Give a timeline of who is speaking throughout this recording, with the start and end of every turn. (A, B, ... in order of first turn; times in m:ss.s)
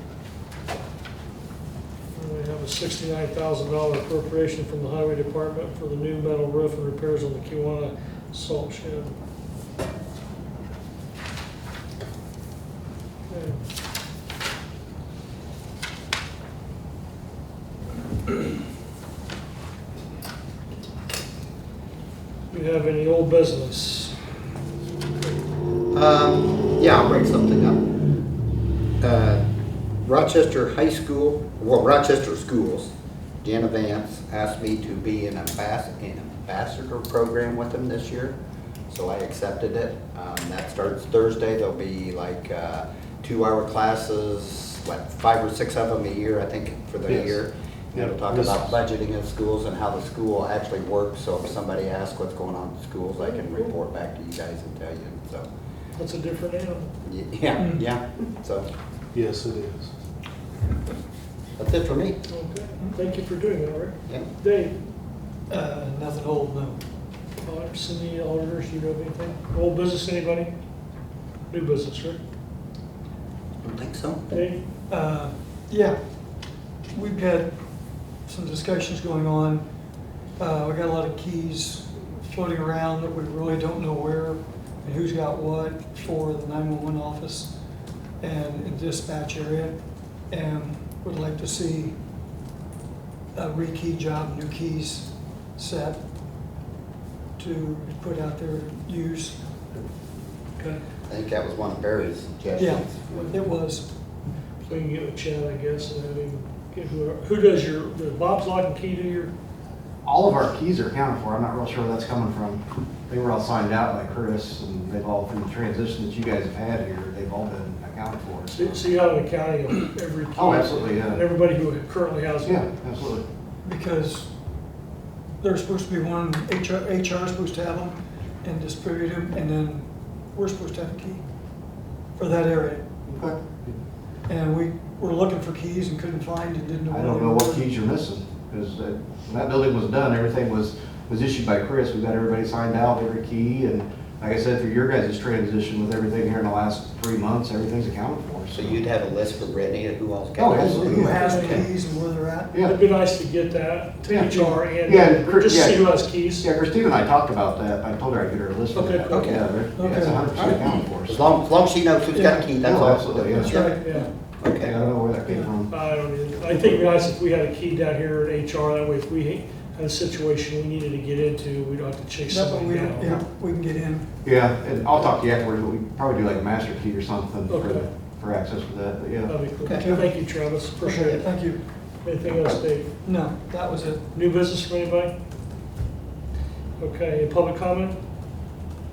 0:02.1-0:09.2 A
0:13.3-0:13.6 A
0:22.5-0:24.2 A
0:25.9-0:27.8 B
0:29.0-0:29.4 B
0:30.0-0:32.9 B
0:33.4-0:38.4 B
0:38.9-0:55.5 B
0:47.1-0:47.4 C
0:48.0-0:48.8 C
0:53.2-0:53.7 A
0:56.0-0:56.9 A
0:57.0-0:58.7 B
0:57.6-0:57.8 D
0:59.1-0:59.9 C
1:01.6-1:02.2 B
1:02.3-1:04.8 A
1:05.5-1:06.8 D
1:07.4-1:10.5 A
1:11.5-1:12.2 A
1:13.6-1:14.2 B
1:14.3-1:14.6 A
1:14.9-1:16.0 D
1:16.9-1:17.5 D
1:18.3-1:19.6 D
1:20.4-1:27.5 D
1:28.2-1:29.8 D
1:30.3-1:32.0 D
1:33.4-1:36.0 D
1:37.4-1:39.4 D
1:41.1-1:43.4 B
1:42.6-1:43.9 D
1:44.6-1:49.3 A
1:50.0-1:58.8 E
1:58.5-2:02.7 A
2:00.4-2:01.2 E
2:02.4-2:03.2 E
2:03.6-2:04.3 D
2:05.4-2:11.2 D
2:12.2-2:12.8 D
2:13.1-2:13.8 E
2:14.3-2:17.7 D
2:16.9-2:28.8 E
2:28.5-2:31.7 B
2:30.4-2:31.6 E
2:30.6-2:32.6 D
2:31.2-2:31.6 A
2:32.6-2:36.5 A
2:34.3-2:34.6 D
2:34.8-2:35.9 E
2:36.4-2:41.2 E
2:38.7-2:39.4 A
2:39.1-2:39.4 B
2:39.8-2:40.5 D
2:40.4-2:43.8 B
2:42.1-2:42.5 D
2:42.6-2:43.7 E
2:43.3-2:44.1 D
2:43.8-2:44.1 A
2:44.4-2:44.7 B
2:44.5-2:45.7 E
2:45.7-2:53.1 A
2:52.3-2:54.1 D
2:54.2-2:59.3 E
2:57.5-2:57.9 A
2:59.3-3:01.3 A
2:59.6-2:59.9 B
2:59.7-3:00.2 D
3:00.8-3:01.6 D
3:02.0-3:02.9 A
3:03.0-3:04.0 D
3:04.1-3:05.1 A
3:06.8-3:08.0 A